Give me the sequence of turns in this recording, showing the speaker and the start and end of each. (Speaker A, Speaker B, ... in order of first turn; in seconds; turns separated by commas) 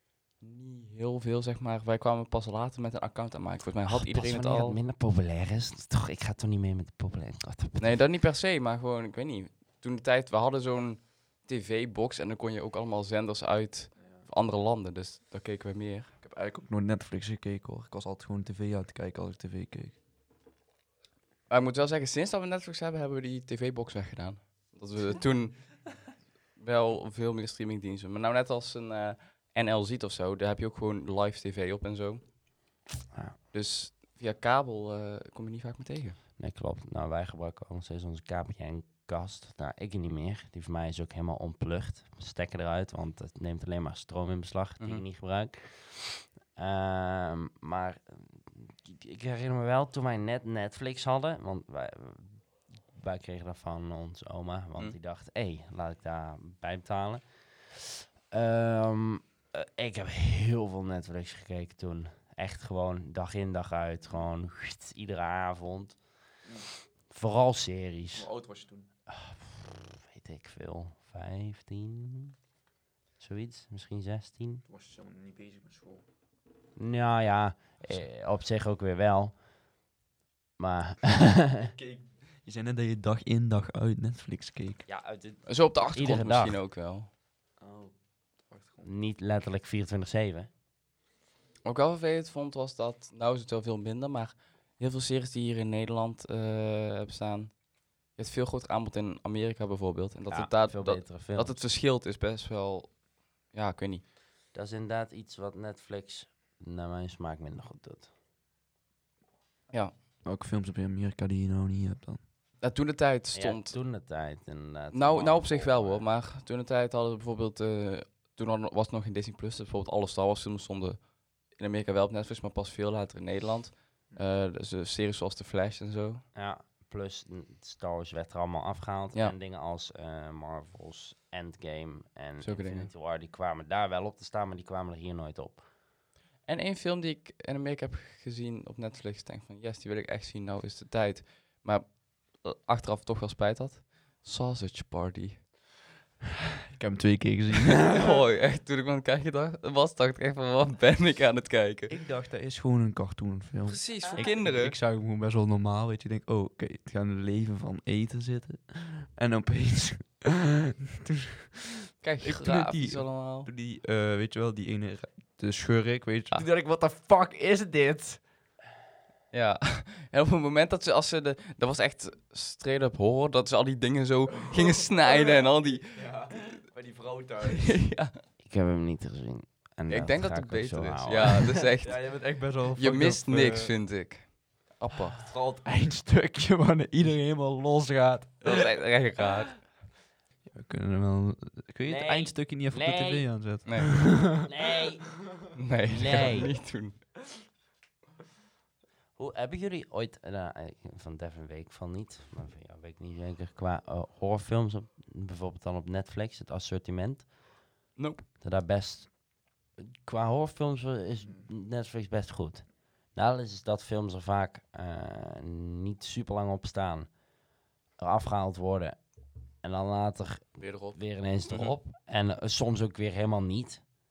Speaker A: 0.4-4.8, Speaker B: 3.9-7.9, Speaker A: 7.8-16.1, Speaker C: 16.2-19.9, Speaker A: 21.5-25.9, Speaker A: 26.6-32.2, Speaker A: 33.5-36.2, Speaker B: 36.4-66.0, Speaker B: 67.1-68.3, Speaker C: 68.1-68.9, Speaker B: 69.1-72.3, Speaker B: 73.2-74.6, Speaker C: 74.7-76.0, Speaker B: 76.8-79.3, Speaker B: 80.6-81.7, Speaker C: 81.7-84.8, Speaker B: 84.9-86.6, Speaker A: 85.5-87.1, Speaker C: 87.6-88.9, Speaker B: 88.8-90.5, Speaker A: 91.6-97.5, Speaker A: 98.2-103.0, Speaker B: 100.3-101.6, Speaker A: 103.5-104.0, Speaker B: 104.5-108.1, Speaker C: 110.2-112.2, Speaker A: 112.6-113.8, Speaker B: 113.3-116.0, Speaker A: 114.9-121.0, Speaker A: 121.5-126.2, Speaker B: 126.3-135.6, Speaker A: 132.4-132.9, Speaker A: 136.5-145.4, Speaker C: 146.7-148.2, Speaker A: 147.8-151.9, Speaker C: 151.9-168.2, Speaker A: 153.7-154.7, Speaker A: 162.0-163.5, Speaker A: 169.3-176.1, Speaker C: 175.9-177.8, Speaker A: 177.4-178.2, Speaker B: 178.4-181.6, Speaker A: 179.9-182.2, Speaker C: 181.8-183.7, Speaker A: 182.8-185.2, Speaker C: 185.2-188.7, Speaker A: 188.4-189.7, Speaker C: 190.5-194.5, Speaker B: 191.9-193.3, Speaker A: 193.6-194.0, Speaker B: 194.4-195.3, Speaker A: 195.5-197.0, Speaker B: 195.9-196.5, Speaker B: 199.2-207.3, Speaker A: 208.0-208.2, Speaker B: 208.4-209.1, Speaker B: 209.8-217.1, Speaker B: 218.0-219.0, Speaker B: 219.6-223.8, Speaker A: 220.6-221.0